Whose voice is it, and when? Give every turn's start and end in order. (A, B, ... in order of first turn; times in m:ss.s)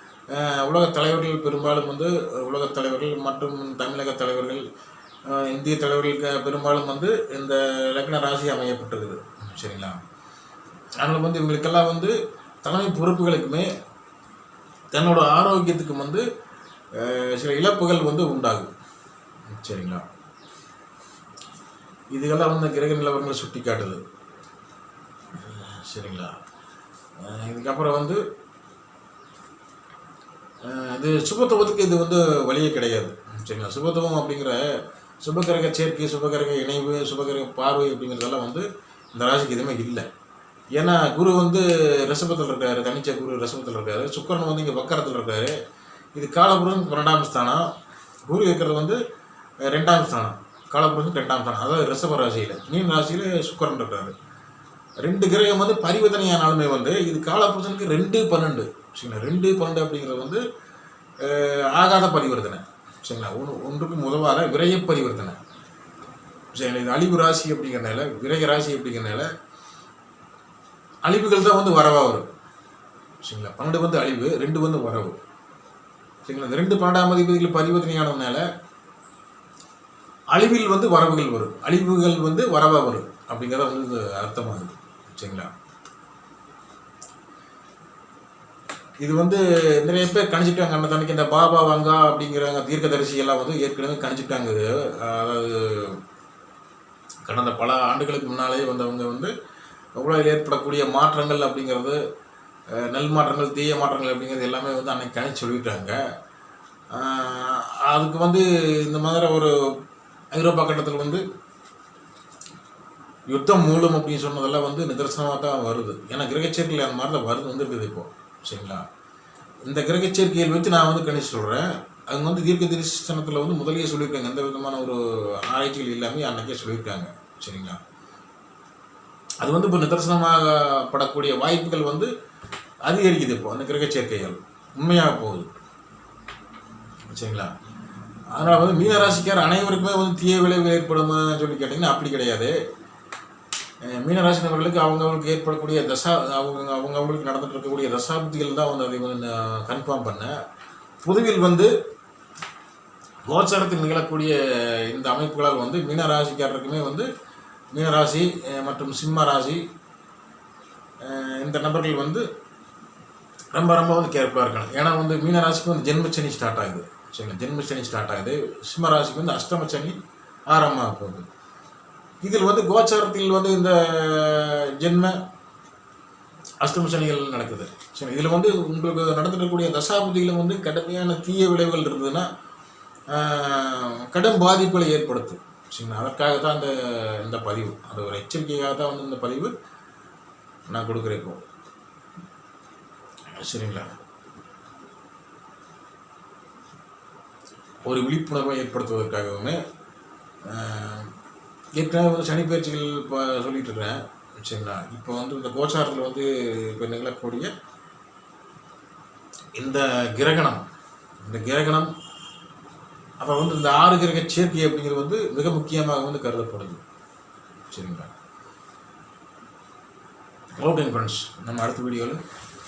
0:00.3-0:04.7 A
0:05.3-0:10.0 A
0:11.0-0:13.7 A
0:14.9-0:16.2 A
0:16.9-0:18.7 A
0:19.5-0:20.0 A
0:22.1-0:24.0 A
0:25.4-0:26.4 A
0:27.2-0:28.2 A
0:30.6-0:40.1 A
0:40.7-0:45.6 A
0:46.2-0:47.7 A
0:48.3-0:49.0 A
0:49.6-0:54.2 A
0:55.0-1:00.4 A
1:01.2-1:05.4 A
1:06.5-1:09.3 A
1:11.0-1:12.3 A
1:13.2-1:15.2 A
1:16.2-1:18.5 A
1:20.3-1:25.5 A
1:29.0-1:36.0 A
1:37.3-1:39.3 A
1:40.0-1:42.0 A
1:42.7-1:46.0 A
1:46.9-1:49.8 A
1:50.3-1:51.2 A
1:53.3-1:58.9 A
1:59.6-2:07.8 A
2:09.4-2:12.1 A
2:12.8-2:15.5 A
2:17.1-2:17.5 A
2:18.3-2:22.6 A
2:23.8-2:30.4 A
2:31.0-2:31.7 A
2:33.2-2:37.1 A
2:37.7-2:39.6 A
2:41.0-2:42.3 A
2:43.5-2:50.0 A
2:50.5-2:51.3 A
2:52.2-2:55.2 A
2:56.6-3:02.3 A
3:03.1-3:09.5 A
3:10.7-3:11.4 A
3:13.3-3:14.0 A
3:17.8-3:19.6 A
3:20.4-3:21.1 A
3:21.8-3:27.5 A
3:29.6-3:30.6 A
3:31.2-3:31.9 A
3:33.2-3:36.8 A
3:37.7-3:38.1 A
3:40.6-3:42.2 A